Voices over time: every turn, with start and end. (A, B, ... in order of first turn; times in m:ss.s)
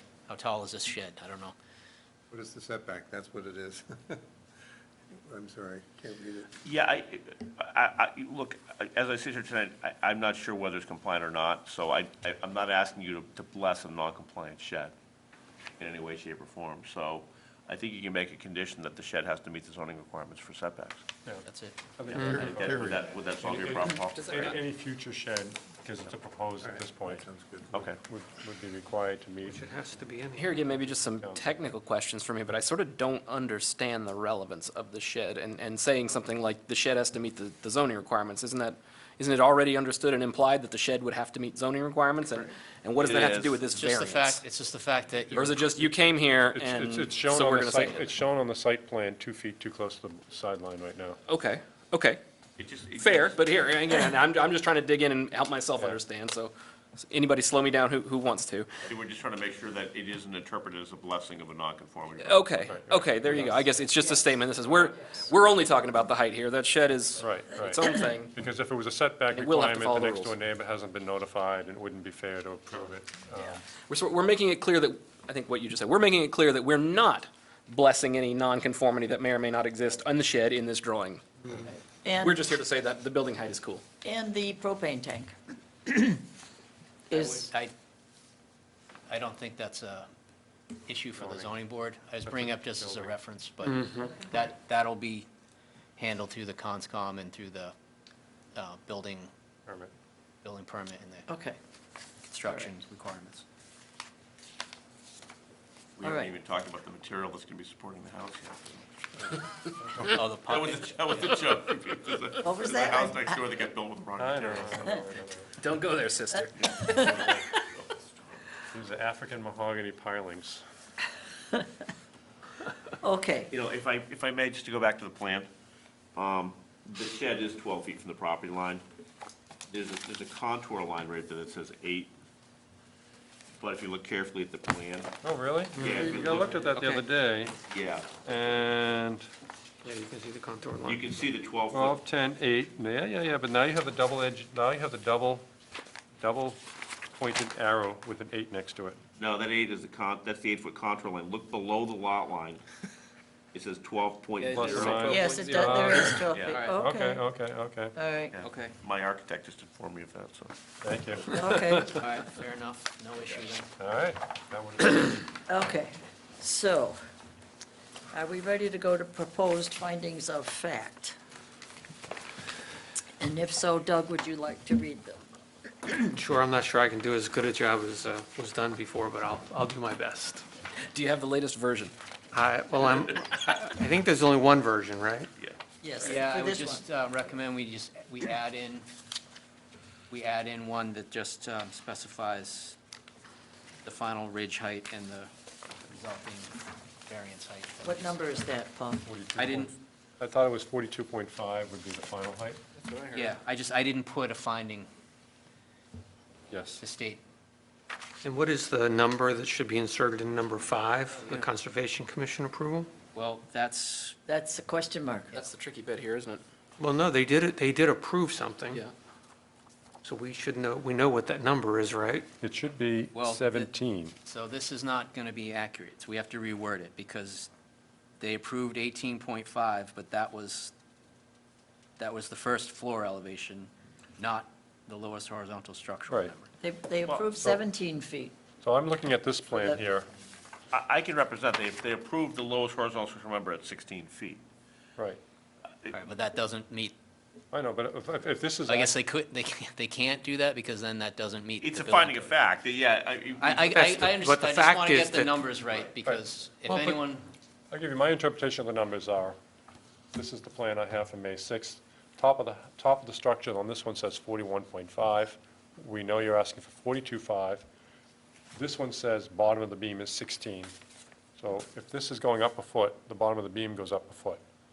0:00.3-0:01.5 A
0:02.3-0:04.2 B
0:05.2-0:06.5 B
0:06.6-0:14.9 C
0:15.8-0:21.0 C
0:21.4-0:21.8 A
0:22.0-0:27.2 D
0:22.1-0:24.6 C
0:22.1-0:22.6 E
0:22.2-0:23.0 B
0:24.1-0:24.5 F
0:26.6-0:27.8 B
0:27.7-0:28.0 C
0:27.8-0:29.6 D
0:29.4-0:30.5 E
0:30.4-0:44.4 F
0:31.1-0:31.6 D
0:43.0-0:43.6 C
0:43.7-0:45.7 A
0:45.3-0:48.1 F
0:46.5-0:51.2 D
0:51.3-0:52.2 F
0:52.6-0:53.5 C
0:52.9-0:58.7 F
0:58.8-1:02.6 C
1:02.2-1:08.3 F
1:02.6-1:03.7 D
1:07.2-1:13.6 D
1:09.3-1:10.3 F
1:13.5-1:21.4 F
1:22.0-1:22.4 G
1:22.2-1:23.8 F
1:24.0-1:25.3 G
1:25.8-1:26.2 G
1:27.1-1:27.5 G
1:27.1-1:27.7 A
1:29.1-1:30.1 A
1:30.8-1:35.3 A
1:31.2-1:31.7 D
1:32.2-1:33.1 D
1:33.6-1:34.1 E
1:36.0-1:37.7 A
1:38.5-1:39.3 A
1:39.6-1:39.9 D
1:40.4-1:41.3 A
1:41.3-1:41.6 G
1:42.3-1:43.4 A
1:46.0-1:48.9 C
1:46.0-1:46.3 G
1:49.8-1:50.2 D
1:50.0-1:51.4 A
1:50.4-1:55.0 C
1:52.4-1:53.4 G
1:54.2-1:55.5 D
1:55.6-1:57.1 F
1:56.4-1:57.6 G
1:57.0-1:57.4 D
1:58.7-2:00.6 D
2:03.0-2:03.5 G
2:03.5-2:05.5 C
2:06.1-2:08.8 C
2:09.7-2:12.1 C
2:13.6-2:15.1 C
2:15.2-2:17.6 D
2:15.8-2:16.6 C
2:15.8-2:16.1 E
2:16.6-2:17.0 E
2:17.7-2:18.1 C
2:18.2-2:19.2 D
2:19.8-2:21.0 E
2:20.8-2:22.0 C
2:21.7-2:25.5 D
2:26.2-2:29.0 D
2:29.2-2:32.6 C
2:33.5-2:35.0 C
2:34.4-2:35.9 F
2:34.5-2:36.2 D
2:35.0-2:37.2 G
2:36.2-2:36.7 C
2:36.5-2:36.8 A
2:36.7-2:37.9 D
2:37.9-2:38.3 G
2:38.3-2:40.5 C
2:38.4-2:38.7 A
2:40.8-2:42.1 D
2:41.3-2:41.8 G
2:41.9-2:43.7 A
2:43.8-2:45.3 D
2:45.5-2:47.0 G
2:48.1-2:51.2 G
2:53.2-2:55.2 G
2:56.1-3:00.4 E
3:00.8-3:01.9 F
3:02.3-3:05.3 E
3:05.8-3:06.8 G
3:06.0-3:08.9 A
3:10.1-3:12.8 A
3:13.8-3:18.4 A
3:17.8-3:19.1 G
3:19.0-3:22.6 D
3:19.3-3:19.8 A
3:22.8-3:23.3 F
3:23.1-3:24.9 A
3:26.5-3:26.8 D
3:26.8-3:27.2 A
3:28.2-3:32.9 E
3:33.1-3:34.2 A
3:34.2-3:35.3 G
3:35.3-3:36.4 F
3:36.8-3:38.8 E
3:40.0-3:42.3 E
3:42.4-3:44.1 D
3:43.1-3:43.7 A
3:44.2-3:47.5 A
3:48.2-3:50.7 A
3:52.0-3:56.5 A
3:56.6-3:58.4 G
3:57.0-3:57.4 C
3:58.6-4:00.1 D
4:00.7-4:04.4 C
4:05.9-4:07.0 A
4:07.5-4:09.0 D
4:08.6-4:12.4 A
4:11.6-4:14.0 C
4:13.4-4:17.3 A
4:13.7-4:15.4 E
4:16.7-4:17.0 E
4:17.7-4:19.4 D
4:20.1-4:27.6 D
4:28.5-4:30.7 D
4:31.4-4:34.4 D